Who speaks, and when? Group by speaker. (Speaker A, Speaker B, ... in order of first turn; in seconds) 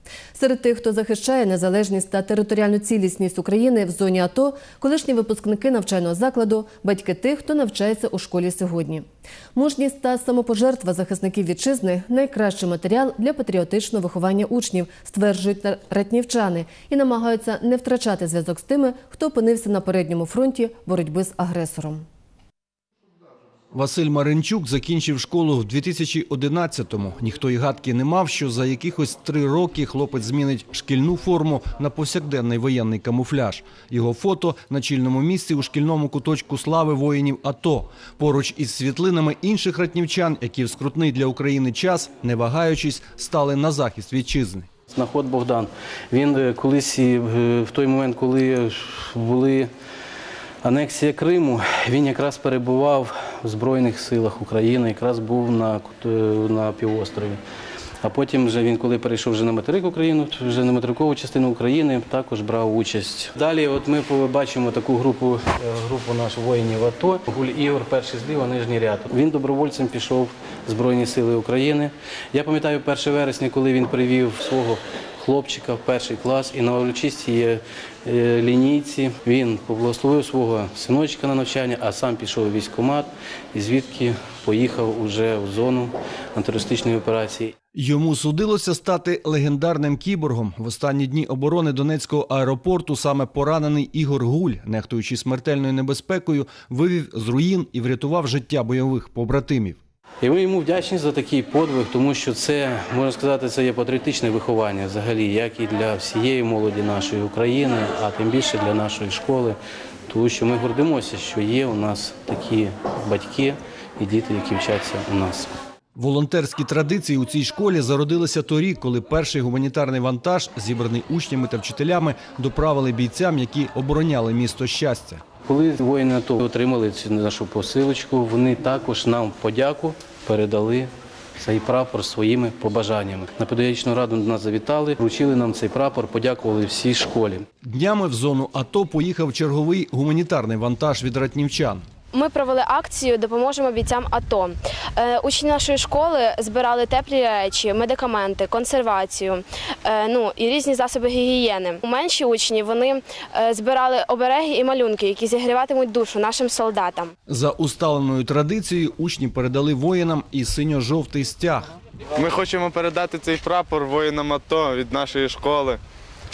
Speaker A: 0.3-22.1
Speaker B: 23.7-44.7, 87.8-99.8, 116.0-125.2, 137.6-141.8, 157.3-161.7
Speaker C: 44.9-49.7, 50.6-57.4, 58.0-87.5, 100.2-109.6, 110.1-115.5, 125.5-137.5
Speaker D: 142.1-157.1
Speaker E: 162.2-165.8